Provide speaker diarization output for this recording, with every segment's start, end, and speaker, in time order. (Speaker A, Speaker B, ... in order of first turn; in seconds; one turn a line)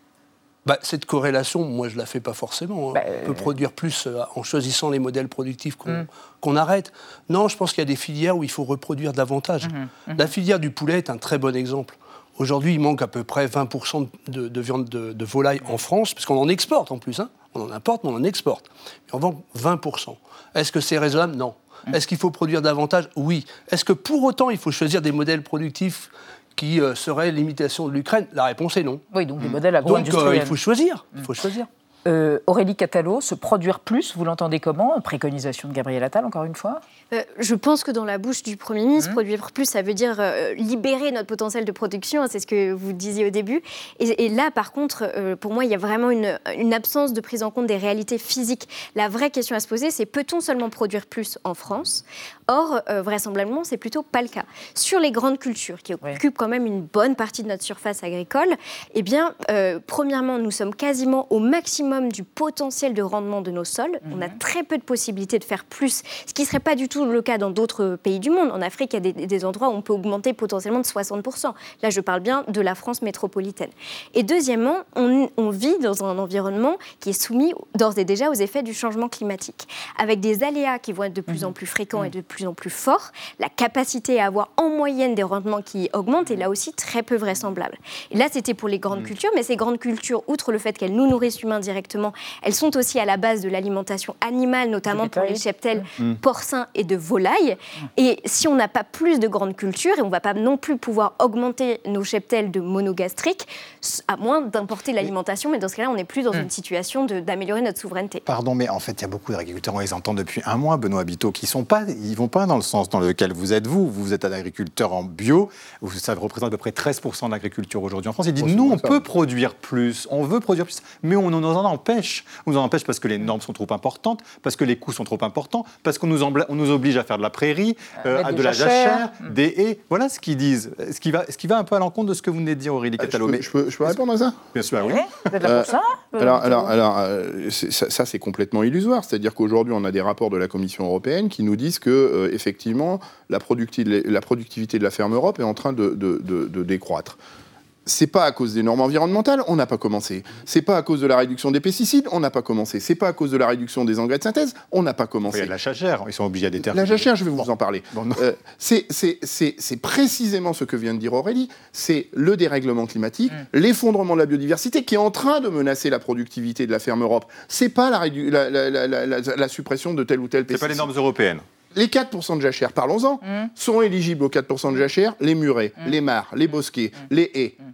Speaker A: 0.7-29.0
Speaker B: 2.9-3.5
Speaker B: 9.6-10.3
Speaker B: 29.1-30.6
Speaker A: 29.8-31.7
Speaker B: 32.1-36.8
Speaker C: 37.1-108.2
Speaker B: 64.1-64.4
Speaker B: 81.3-82.1
Speaker B: 94.9-95.9
Speaker D: 108.3-134.0
Speaker E: 118.4-119.0
Speaker B: 128.0-129.3
Speaker E: 133.0-134.4
Speaker D: 134.5-135.6
Speaker B: 134.8-136.7
Speaker E: 135.4-147.2
Speaker E: 147.9-155.5
Speaker D: 155.3-158.2
Speaker E: 156.7-170.9
Speaker D: 170.5-171.4
Speaker E: 171.7-177.6